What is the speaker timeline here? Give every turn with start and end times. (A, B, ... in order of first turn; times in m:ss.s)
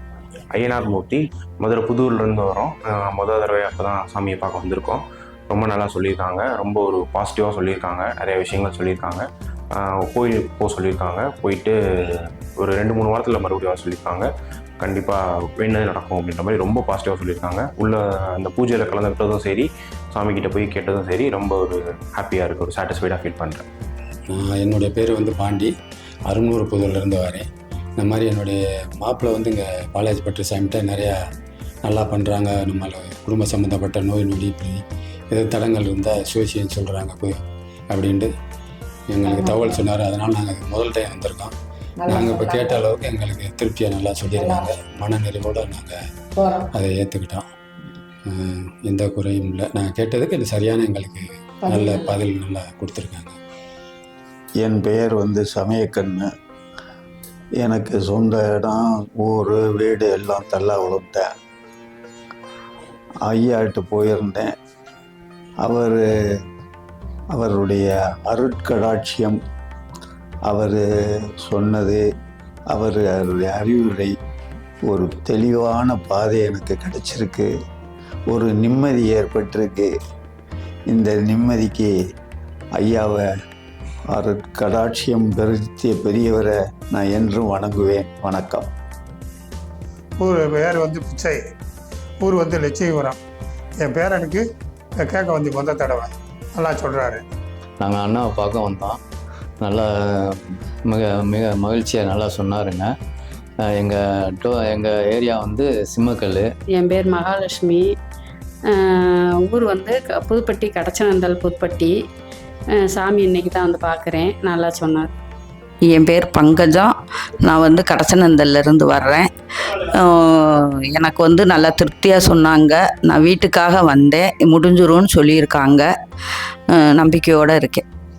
0:00.5-0:14.3 A
0:14.8-0:23.6 A
0:24.3-0:25.7 B
0:26.3-0:27.4 B
0:28.0-0:31.2 B
0:31.8-0:37.3 B
0:37.9-0:38.3 B
0:39.1-0:46.0 B
0:46.7-0:47.4 B
0:48.3-0:53.4 B
0:54.6-0:56.3 C
0:57.6-1:01.3 C
1:03.2-1:04.5 C
1:05.6-1:06.0 C
1:07.3-1:09.4 C
1:10.5-1:10.8 C
1:11.4-1:12.0 C
1:12.7-1:14.1 C
1:14.9-1:17.5 C
1:18.3-1:19.9 C
1:20.9-1:21.9 C
1:22.8-1:23.3 C
1:24.1-1:28.7 C
1:30.2-1:31.4 D
1:32.2-1:33.1 D
1:33.8-1:34.4 D
1:35.0-1:36.0 D
1:36.6-1:37.2 D
1:37.8-1:39.0 E
1:39.6-1:42.9 E
1:43.7-1:46.5 E
1:46.7-1:47.8 F
1:49.4-1:51.9 F
1:52.9-1:55.1 F
1:55.8-2:06.0 G
2:06.7-2:07.8 G